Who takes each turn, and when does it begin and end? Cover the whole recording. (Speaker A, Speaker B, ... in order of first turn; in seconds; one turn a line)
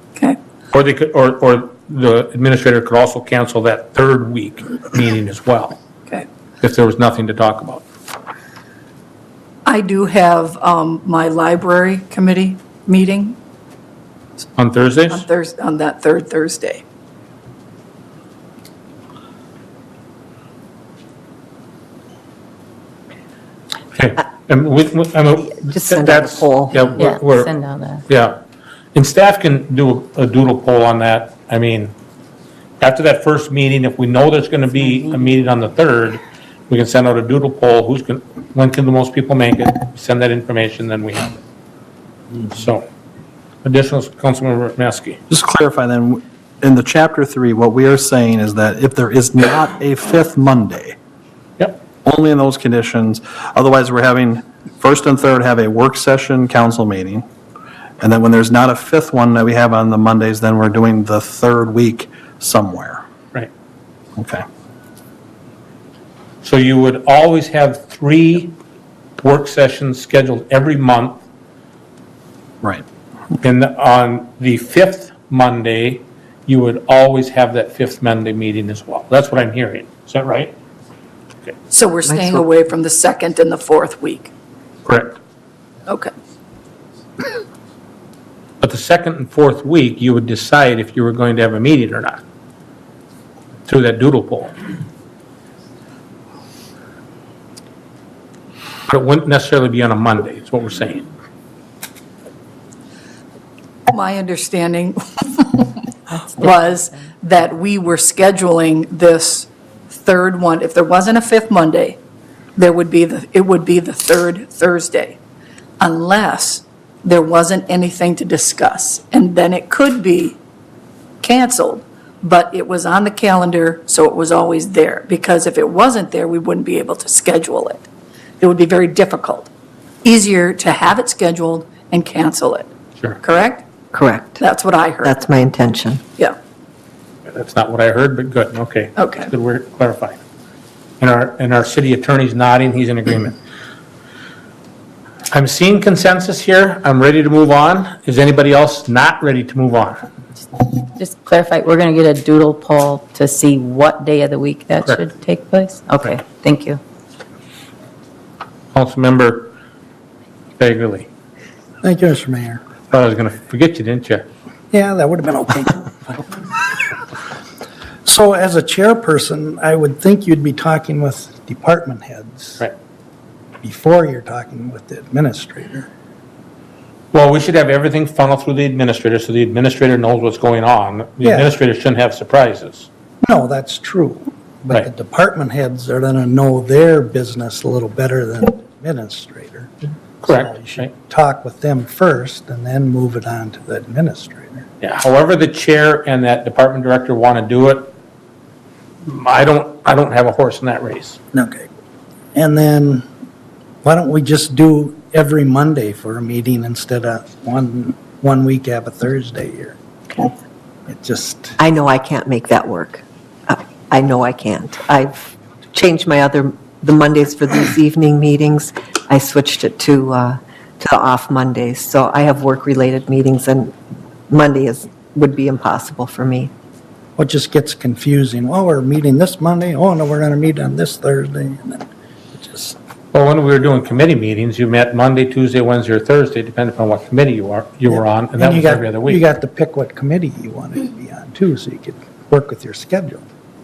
Speaker A: 0.7-5.8
Speaker A: 6.6-7.8
Speaker B: 9.7-13.3
Speaker A: 14.6-15.2
Speaker B: 15.1-16.8
Speaker A: 23.9-27.6
Speaker C: 25.4-26.9
Speaker D: 26.9-28.0
Speaker A: 28.1-28.4
Speaker A: 28.9-31.9
Speaker A: 32.8-41.4
Speaker A: 42.4-42.9
Speaker A: 43.6-45.2
Speaker E: 45.3-51.0
Speaker E: 52.0-57.2
Speaker E: 58.0-63.0
Speaker E: 64.2-64.4
Speaker A: 66.4-68.5
Speaker A: 69.2-71.2
Speaker A: 73.4-80.5
Speaker B: 81.7-84.3
Speaker C: 82.1-82.4
Speaker A: 84.8-85.2
Speaker B: 85.8-86.1
Speaker A: 88.6-92.2
Speaker A: 93.7-94.5
Speaker A: 98.9-101.0
Speaker B: 103.9-112.0
Speaker B: 112.5-115.2
Speaker B: 115.8-120.4
Speaker B: 121.2-127.8
Speaker B: 128.4-129.5
Speaker B: 130.0-132.7
Speaker B: 133.2-133.6
Speaker C: 133.9-134.4
Speaker B: 134.4-135.2
Speaker C: 135.0-136.0
Speaker A: 137.3-140.2
Speaker B: 139.0-139.3
Speaker A: 141.0-143.3
Speaker A: 145.3-150.0
Speaker D: 150.6-156.8
Speaker A: 158.7-159.5
Speaker A: 160.6-161.1
Speaker F: 161.8-162.6
Speaker A: 162.9-164.3
Speaker F: 164.7-166.5
Speaker F: 168.0-172.6
Speaker F: 173.6-175.9
Speaker A: 177.1-182.9
Speaker F: 181.2-181.5
Speaker F: 183.2-189.7
Speaker A: 190.2-190.9
Speaker F: 190.2-194.7
Speaker A: 194.8-197.9
Speaker A: 199.0-201.2
Speaker F: 201.3-201.7
Speaker F: 202.3-203.0
Speaker F: 203.8-209.8
Speaker F: 210.9-211.6
Speaker C: 211.6-223.7
Speaker C: 224.3-226.5
Speaker F: 227.2-232.8
Speaker A: 233.1-239.2
Speaker F: 237.9-243.2